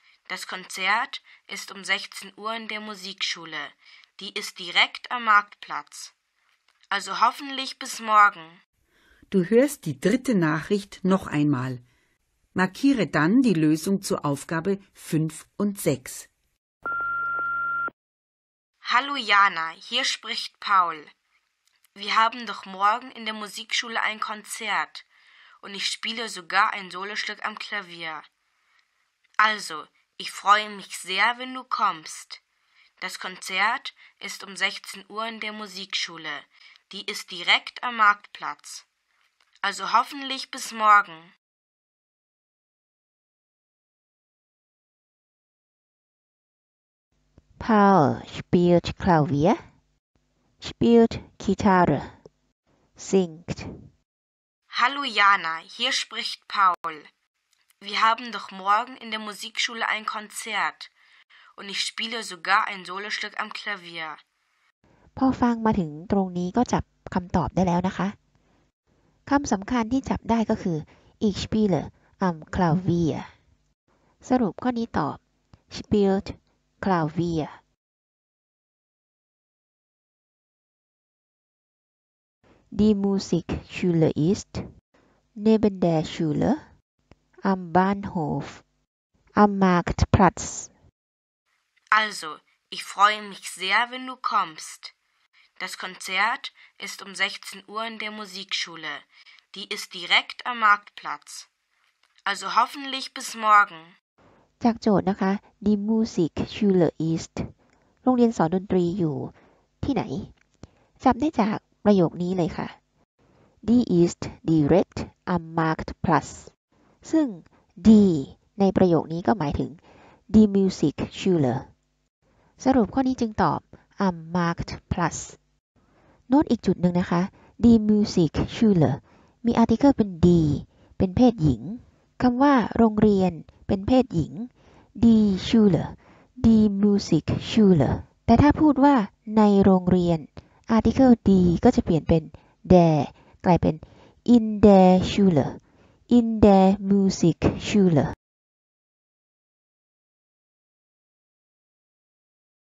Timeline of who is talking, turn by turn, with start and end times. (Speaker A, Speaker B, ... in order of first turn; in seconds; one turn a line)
Speaker A: 0.3-6.1
Speaker A: 6.9-8.6
Speaker B: 9.3-11.8
Speaker B: 12.5-16.3
Speaker A: 18.8-21.1
Speaker A: 21.9-25.1
Speaker A: 25.6-28.2
Speaker A: 29.4-32.4
Speaker A: 33.0-38.8
Speaker A: 39.6-41.3
Speaker C: 47.6-49.6
Speaker C: 50.6-52.1
Speaker C: 53.0-53.7
Speaker A: 54.7-57.1
Speaker A: 57.8-60.9
Speaker A: 61.6-64.2
Speaker C: 65.2-68.2
Speaker C: 69.2-73.3
Speaker C: 74.2-75.2
Speaker C: 75.7-77.6
Speaker C: 82.7-84.7
Speaker C: 85.3-86.6
Speaker C: 87.4-88.6
Speaker C: 89.3-90.7
Speaker A: 91.9-94.9
Speaker A: 95.6-101.5
Speaker A: 102.2-103.9
Speaker C: 104.6-107.5
Speaker C: 108.0-110.3
Speaker C: 111.0-112.8
Speaker C: 113.6-116.5
Speaker C: 117.0-121.7
Speaker C: 122.6-125.4
Speaker C: 126.3-148.1